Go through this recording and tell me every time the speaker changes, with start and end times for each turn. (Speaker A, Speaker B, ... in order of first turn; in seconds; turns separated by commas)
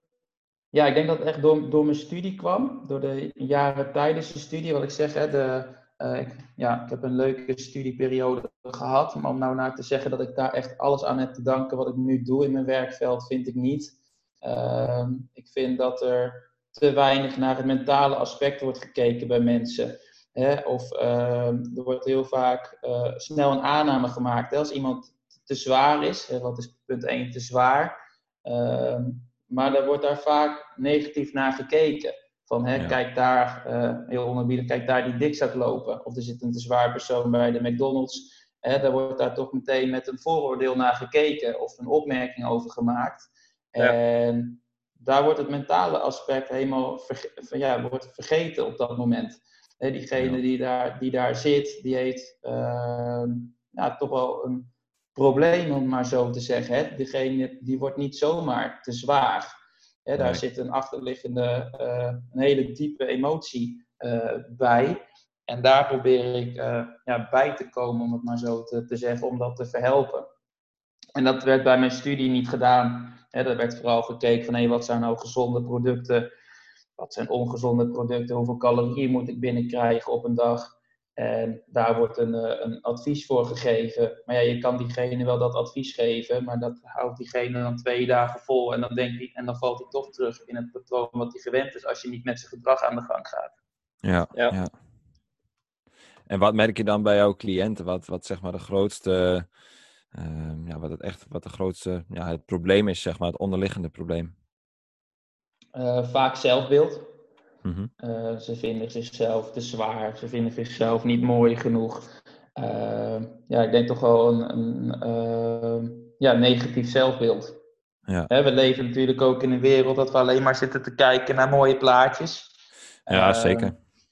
Speaker A: 0.7-59.5, Speaker A: 60.0-70.3, Speaker A: 71.1-76.3, Speaker A: 77.0-93.5, Speaker B: 94.0-94.7, Speaker B: 96.3-99.5, Speaker B: 100.1-104.3, Speaker A: 105.7-107.1, Speaker B: 107.6-107.9, Speaker A: 108.0-117.6, Speaker A: 118.3-122.5, Speaker A: 123.0-123.7, Speaker B: 123.1-123.8